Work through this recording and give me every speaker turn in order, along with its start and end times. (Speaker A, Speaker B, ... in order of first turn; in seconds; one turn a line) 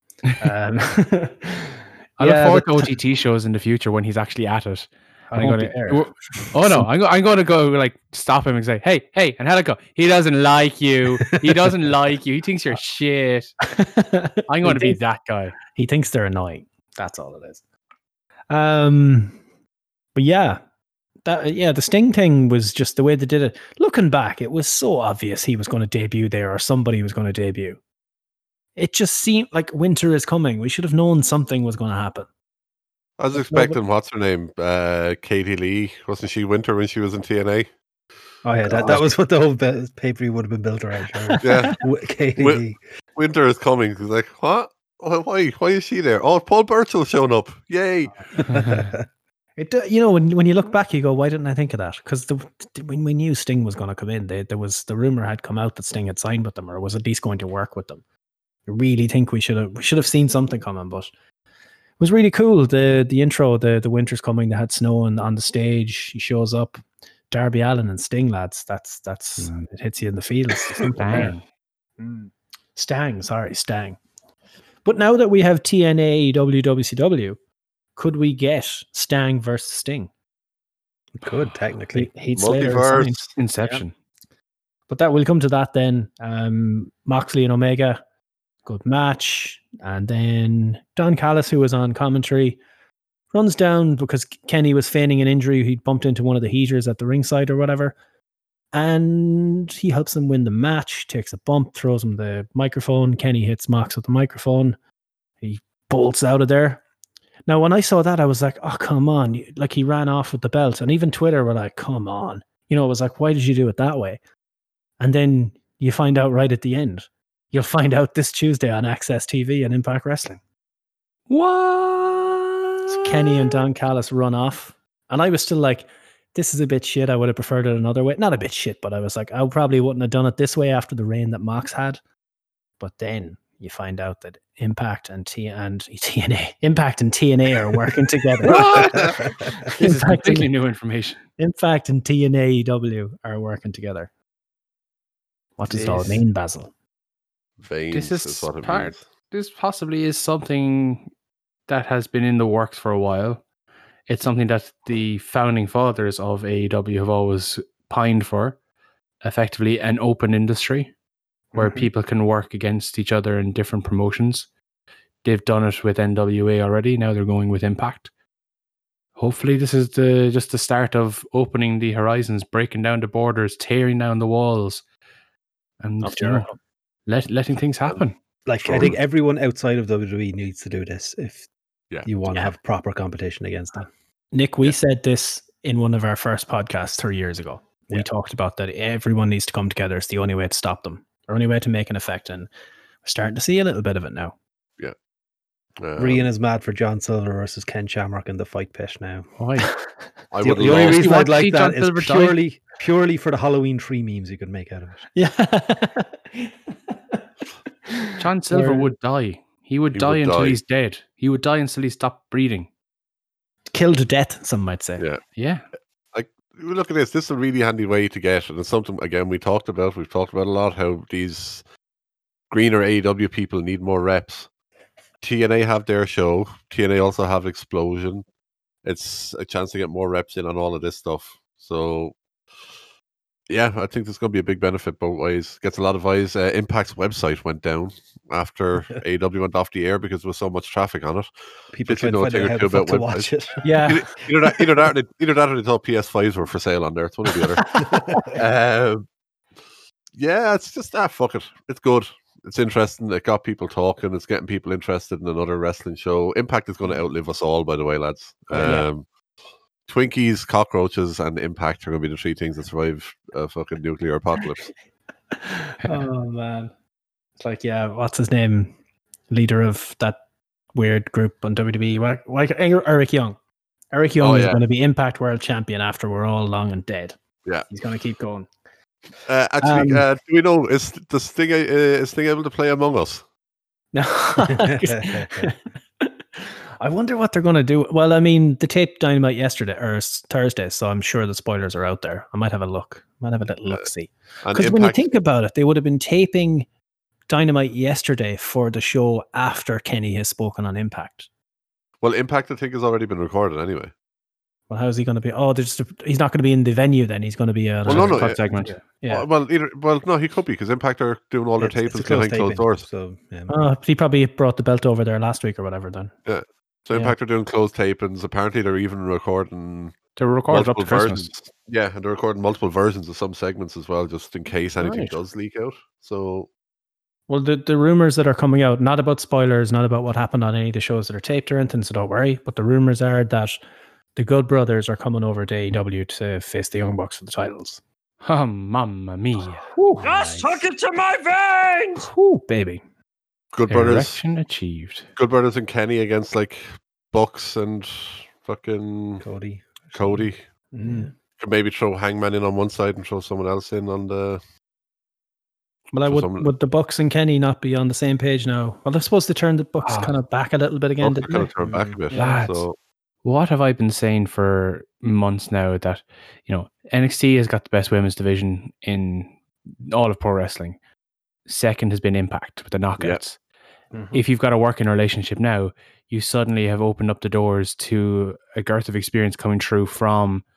Speaker A: 0.4-2.9
Speaker B: 2.2-13.5
Speaker A: 5.3-6.8
Speaker A: 13.6-15.0
Speaker B: 14.5-15.5
Speaker A: 15.7-17.6
Speaker A: 18.5-19.4
Speaker A: 20.1-20.6
Speaker A: 21.2-27.8
Speaker A: 28.8-32.3
Speaker C: 33.2-37.7
Speaker A: 33.3-33.8
Speaker D: 38.4-42.8
Speaker C: 38.7-39.1
Speaker A: 41.1-41.7
Speaker C: 41.4-41.8
Speaker C: 42.4-42.6
Speaker C: 43.1-48.1
Speaker D: 48.4-49.0
Speaker A: 49.6-58.0
Speaker A: 58.7-61.1
Speaker A: 62.0-71.3
Speaker B: 70.9-71.4
Speaker A: 72.8-74.0
Speaker A: 74.8-77.4
Speaker A: 78.0-80.1
Speaker D: 81.2-82.1
Speaker A: 81.9-83.8
Speaker C: 82.3-83.3
Speaker B: 83.4-83.9
Speaker A: 84.9-88.0
Speaker A: 88.6-92.6
Speaker A: 93.3-98.0
Speaker A: 98.7-104.8
Speaker A: 105.4-106.8
Speaker A: 107.5-114.2
Speaker A: 115.0-120.4
Speaker B: 121.3-123.6
Speaker A: 122.9-132.0
Speaker A: 132.8-139.1
Speaker B: 138.5-141.2
Speaker C: 138.5-139.0
Speaker A: 139.6-140.5
Speaker A: 141.4-144.1
Speaker A: 145.6-146.7
Speaker B: 145.7-146.2
Speaker C: 147.6-149.0
Speaker B: 147.9-151.1
Speaker B: 151.7-153.4
Speaker B: 154.1-158.6
Speaker B: 159.2-160.9
Speaker D: 161.5-161.9
Speaker B: 161.5-164.5
Speaker B: 165.2-168.1
Speaker B: 169.2-174.8
Speaker B: 175.8-176.5
Speaker A: 176.0-176.6
Speaker B: 177.1-178.1
Speaker D: 178.4-181.5
Speaker C: 178.6-179.0
Speaker D: 182.0-183.9
Speaker A: 184.3-192.5
Speaker A: 193.0-194.3
Speaker C: 195.8-196.2
Speaker D: 196.0-199.3
Speaker B: 199.4-199.8
Speaker C: 200.3-201.1
Speaker D: 200.4-205.0
Speaker B: 200.6-202.4
Speaker A: 205.1-207.2
Speaker A: 207.9-208.9
Speaker B: 208.2-212.7
Speaker C: 209.9-210.6
Speaker A: 213.7-215.0
Speaker B: 215.3-215.6
Speaker C: 216.1-221.6
Speaker C: 222.5-224.5
Speaker C: 225.2-228.2
Speaker C: 228.8-232.2
Speaker C: 233.5-241.3
Speaker D: 241.7-243.9
Speaker C: 241.9-243.3
Speaker A: 243.6-244.0
Speaker C: 243.8-249.0
Speaker D: 247.7-248.3
Speaker C: 250.2-259.1
Speaker A: 258.5-258.9
Speaker C: 259.9-264.7
Speaker A: 265.3-266.7
Speaker A: 267.4-268.8
Speaker A: 269.3-270.2
Speaker A: 270.7-273.4
Speaker A: 273.9-277.1
Speaker C: 274.2-274.6
Speaker A: 277.7-278.5
Speaker C: 279.2-283.2
Speaker A: 279.6-280.0
Speaker A: 283.9-296.7
Speaker D: 284.4-285.5
Speaker C: 294.4-295.0
Speaker A: 297.3-301.3
Speaker C: 302.0-303.9
Speaker A: 304.7-309.3
Speaker C: 307.9-308.4
Speaker B: 307.9-308.8
Speaker C: 309.1-312.9
Speaker D: 311.6-313.6
Speaker A: 313.5-316.1
Speaker C: 316.2-319.9
Speaker B: 320.2-321.3
Speaker C: 320.5-326.5
Speaker A: 324.8-325.1
Speaker A: 327.3-333.6
Speaker A: 334.1-337.8
Speaker B: 338.2-339.6
Speaker A: 339.7-340.1
Speaker D: 340.0-340.6
Speaker E: 340.0-342.1
Speaker A: 342.0-342.8
Speaker C: 343.5-344.2
Speaker B: 343.7-345.1
Speaker C: 345.1-349.2
Speaker D: 349.2-350.2
Speaker C: 349.9-350.5
Speaker A: 350.7-351.1
Speaker C: 351.4-354.4
Speaker A: 355.9-361.5
Speaker C: 356.1-356.5
Speaker B: 359.8-360.1
Speaker C: 361.0-362.8
Speaker D: 361.6-362.0
Speaker A: 362.1-362.4
Speaker B: 362.1-362.6
Speaker B: 363.2-369.3
Speaker B: 369.8-370.8
Speaker B: 371.4-373.4
Speaker B: 374.1-380.4